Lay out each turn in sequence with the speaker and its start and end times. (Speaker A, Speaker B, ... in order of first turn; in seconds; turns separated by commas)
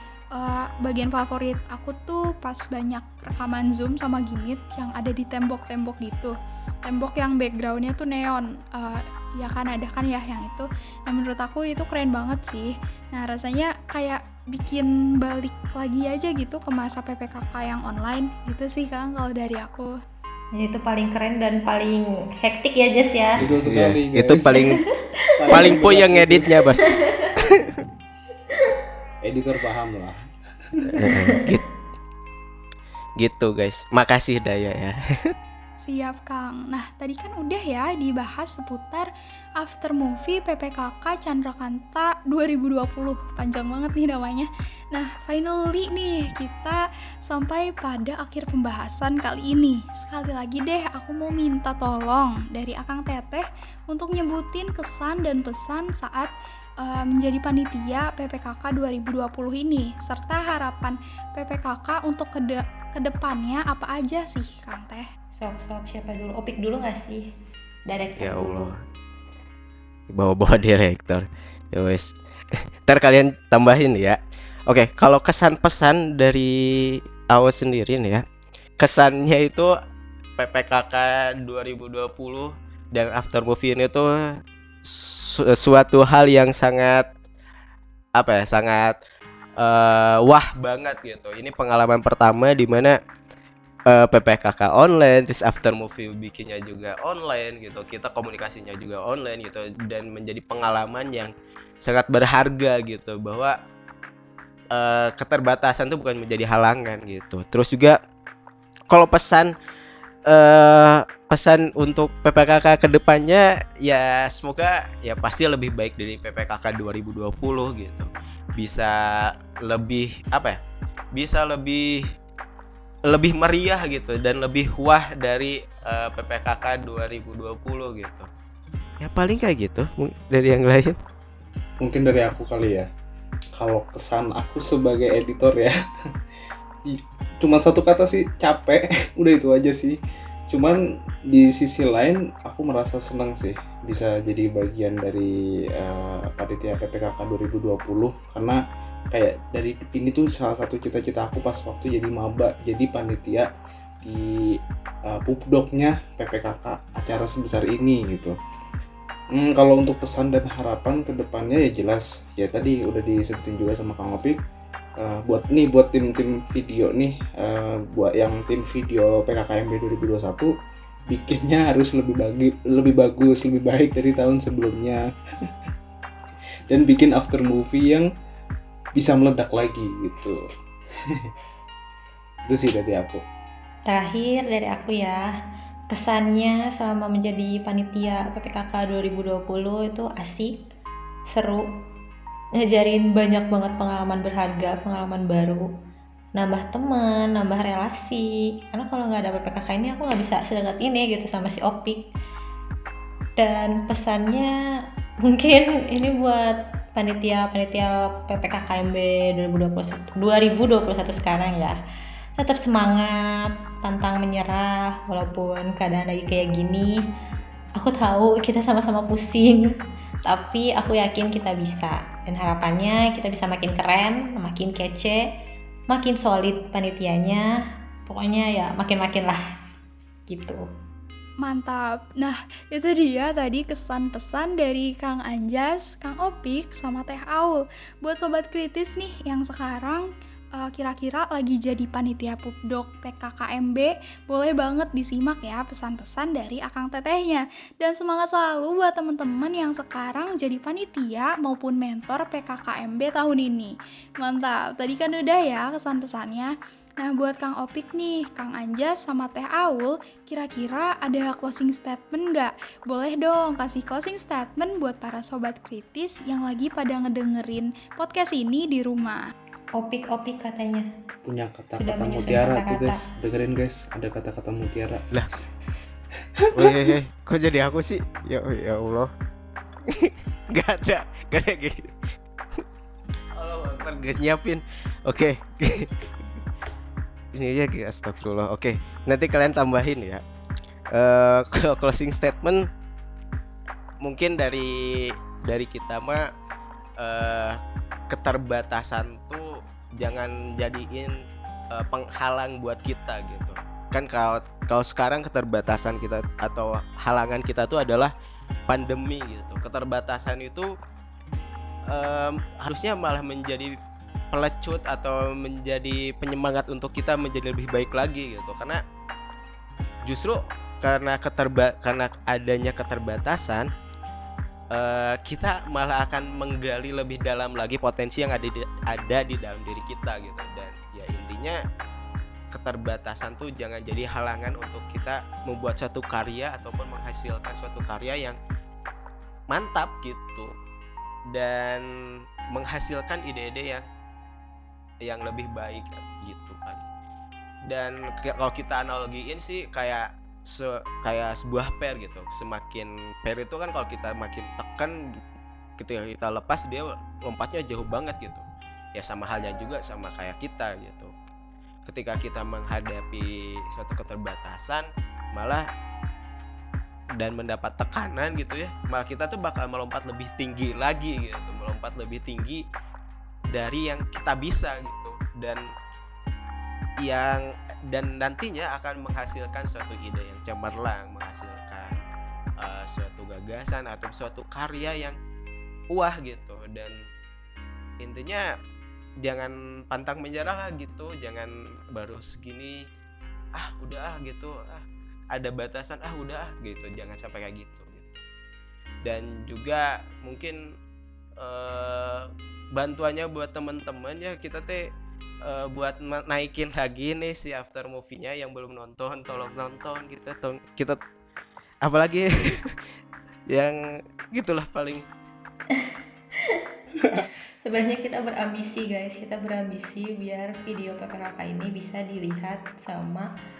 Speaker A: 0.3-19.9, Speaker B: 20.6-23.4, Speaker C: 23.4-24.7, Speaker D: 23.6-24.8, Speaker B: 24.5-25.8, Speaker C: 25.4-26.6, Speaker D: 25.5-27.8, Speaker B: 26.8-27.3, Speaker C: 29.2-30.2, Speaker C: 30.8-31.1, Speaker D: 30.9-31.6, Speaker B: 31.1-31.6, Speaker D: 33.2-35.3, Speaker A: 35.8-65.1, Speaker B: 65.3-67.2, Speaker B: 67.9-68.7, Speaker D: 68.2-68.8, Speaker D: 70.1-72.1, Speaker D: 72.9-78.2, Speaker D: 78.8-79.7, Speaker D: 80.4-87.1, Speaker D: 88.2-89.0, Speaker D: 89.6-93.0, Speaker D: 93.9-101.3, Speaker D: 101.8-103.5, Speaker D: 104.7-108.0, Speaker D: 108.9-109.5, Speaker D: 110.3-120.6, Speaker D: 121.1-122.1, Speaker D: 123.1-128.3, Speaker D: 129.0-131.0, Speaker C: 131.8-132.9, Speaker C: 133.6-135.7, Speaker C: 136.9-140.0, Speaker C: 140.5-148.6, Speaker C: 149.1-153.5, Speaker C: 154.0-158.3, Speaker C: 159.3-164.4, Speaker C: 165.0-170.5, Speaker C: 171.1-175.0, Speaker C: 176.7-178.1, Speaker C: 178.9-180.4, Speaker C: 182.5-183.2, Speaker B: 183.9-185.2, Speaker B: 185.9-190.7, Speaker B: 191.3-191.7, Speaker B: 192.6-195.7, Speaker B: 196.4-202.1, Speaker B: 203.4-204.5, Speaker B: 205.2-211.8, Speaker B: 212.4-217.0, Speaker B: 217.8-219.6, Speaker B: 220.2-225.2, Speaker B: 225.9-227.4, Speaker B: 228.1-229.4, Speaker B: 230.3-230.6, Speaker A: 231.4-269.2, Speaker B: 269.8-270.9, Speaker C: 271.2-275.1, Speaker B: 271.8-273.0, Speaker C: 276.4-276.9, Speaker D: 276.6-279.1, Speaker D: 279.9-282.1, Speaker D: 283.4-285.9, Speaker D: 287.4-290.2, Speaker D: 290.9-292.6, Speaker D: 294.0-296.3, Speaker D: 297.0-297.6, Speaker D: 298.1-308.1, Speaker D: 308.7-310.7, Speaker D: 311.9-313.8, Speaker D: 314.3-318.8, Speaker D: 320.1-323.7, Speaker D: 324.7-331.6, Speaker D: 332.5-338.4, Speaker D: 339.5-340.5, Speaker D: 341.3-341.9, Speaker D: 342.5-343.9, Speaker D: 345.0-346.9, Speaker D: 347.7-355.0, Speaker D: 355.8-358.4, Speaker D: 359.0-361.1, Speaker D: 361.9-365.7, Speaker D: 367.2-372.6, Speaker D: 373.5-375.7, Speaker D: 377.0-382.0, Speaker D: 382.6-385.2, Speaker D: 385.9-387.0, Speaker D: 388.0-388.5, Speaker D: 389.2-392.8, Speaker D: 393.6-398.2, Speaker D: 399.0-400.6, Speaker D: 401.4-404.9, Speaker D: 405.4-411.0, Speaker D: 411.8-412.8, Speaker D: 413.5-413.8, Speaker D: 414.3-415.0, Speaker B: 415.7-416.6, Speaker B: 417.6-423.3